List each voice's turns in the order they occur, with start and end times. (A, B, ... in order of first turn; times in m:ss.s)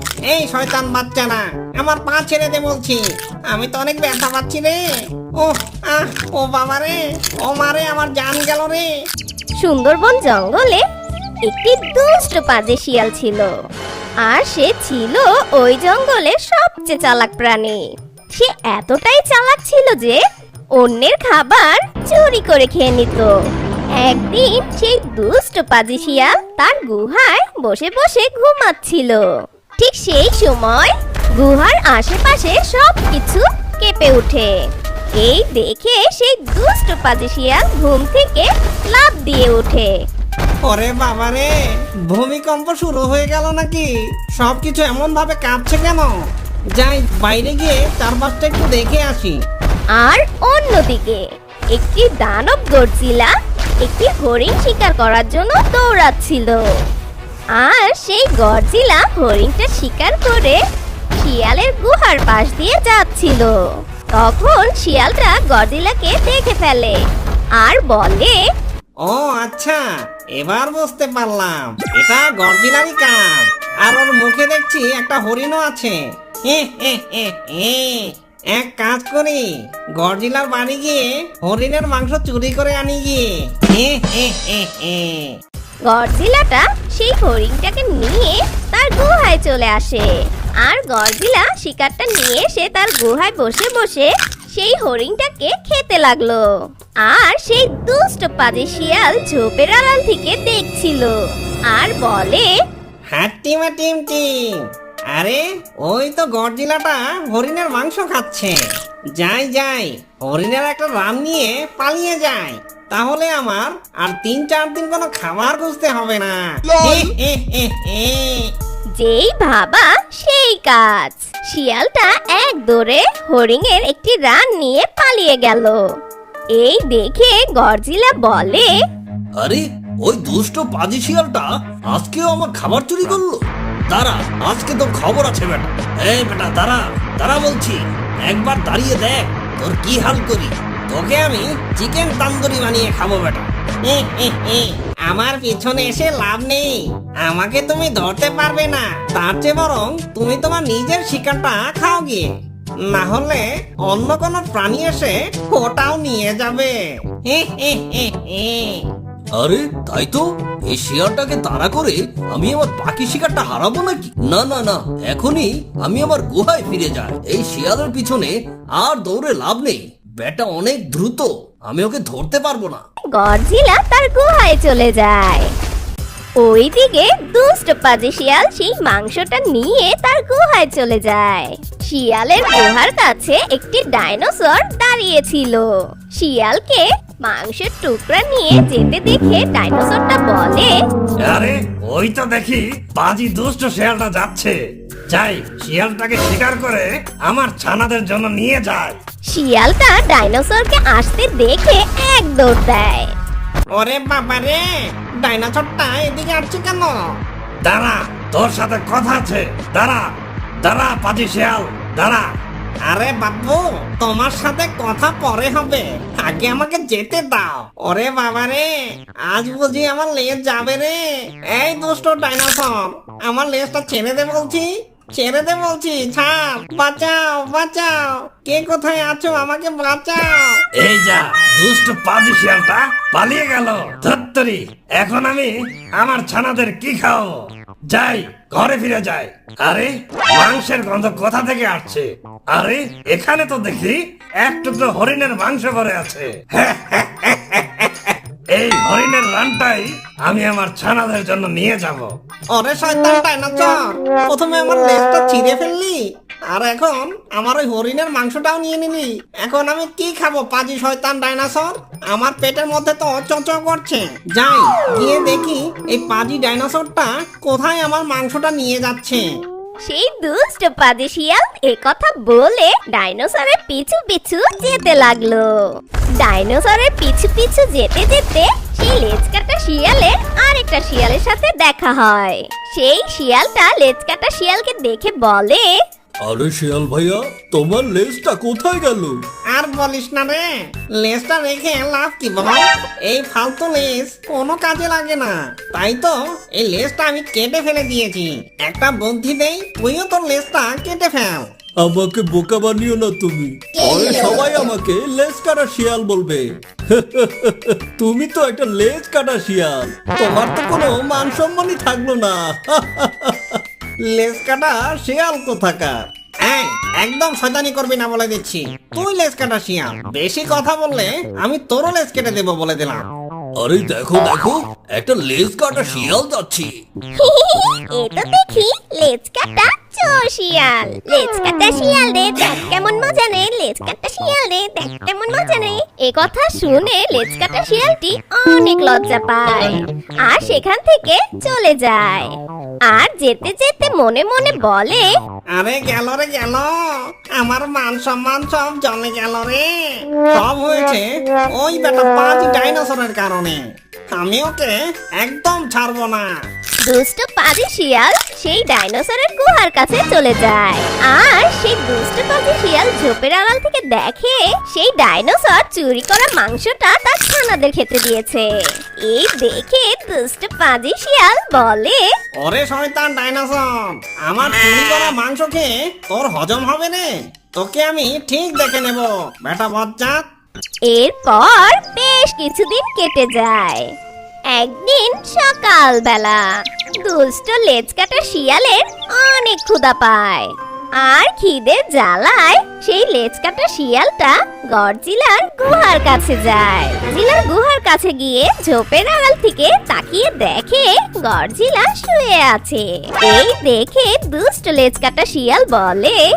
0:00.3-0:04.8 A
0:05.4-0:08.9 A
0:09.6-0:10.8 B
0:11.4-0:13.5 B
0:14.2-0:17.8 B
0:18.3-0:20.2 B
0:20.8-0:23.3 B
0:24.0-0:29.2 B
0:29.8-0:34.5 B
0:35.2-0:39.9 B
0:40.7-0:41.5 A
0:42.1-0:43.9 A
0:44.4-0:46.1 A
0:46.8-0:49.4 A
0:50.0-0:53.3 B
0:53.8-0:56.6 B
0:57.6-1:00.6 B
1:01.2-1:03.5 B
1:04.2-1:07.0 B
1:07.6-1:08.4 B
1:09.0-1:09.8 A
1:10.4-1:16.0 A
1:16.5-1:19.4 A
1:20.0-1:25.4 A
1:25.9-1:30.1 B
1:30.6-1:36.4 B
1:37.0-1:41.1 B
1:41.7-1:42.5 B
1:43.1-1:44.2 A
1:45.1-1:48.6 A
1:49.2-1:58.5 A
1:59.0-2:05.8 B
2:06.6-2:08.7 B
2:09.4-2:20.5 C
2:20.9-2:32.3 A
2:32.9-2:36.7 A
2:37.3-2:38.8 A
2:39.4-2:52.8 C
2:53.1-2:55.5 B
2:56.4-3:10.8 B
3:11.2-3:14.6 D
3:15.1-3:19.0 D
3:19.3-3:23.1 B
3:23.7-3:24.6 A
3:25.2-3:27.0 A
3:27.6-3:30.0 D
3:30.6-3:32.3 D
3:32.9-3:38.7 A
3:39.3-3:41.0 A
3:41.5-3:50.5 A
3:50.8-4:07.6 D
4:08.5-4:12.1 D
4:12.5-4:29.2 A
4:29.8-4:35.5 B
4:36.2-4:45.7 B
4:46.2-4:49.2 C
4:49.5-4:50.4 A
4:51.0-5:01.5 A
5:01.8-5:13.5 C
5:14.1-5:15.9 A
5:16.5-5:23.0 A
5:23.6-5:26.7 C
5:27.2-5:42.3 B
5:42.9-5:45.0 B
5:45.5-5:46.7 A
5:47.4-5:49.7 A
5:50.3-5:53.6 A
5:54.1-5:56.3 A
5:56.8-6:08.5 B
6:09.0-6:12.0 B
6:12.4-6:20.2 A
6:20.9-6:23.8 B
6:24.5-6:26.4 B
6:27.0-6:46.2 B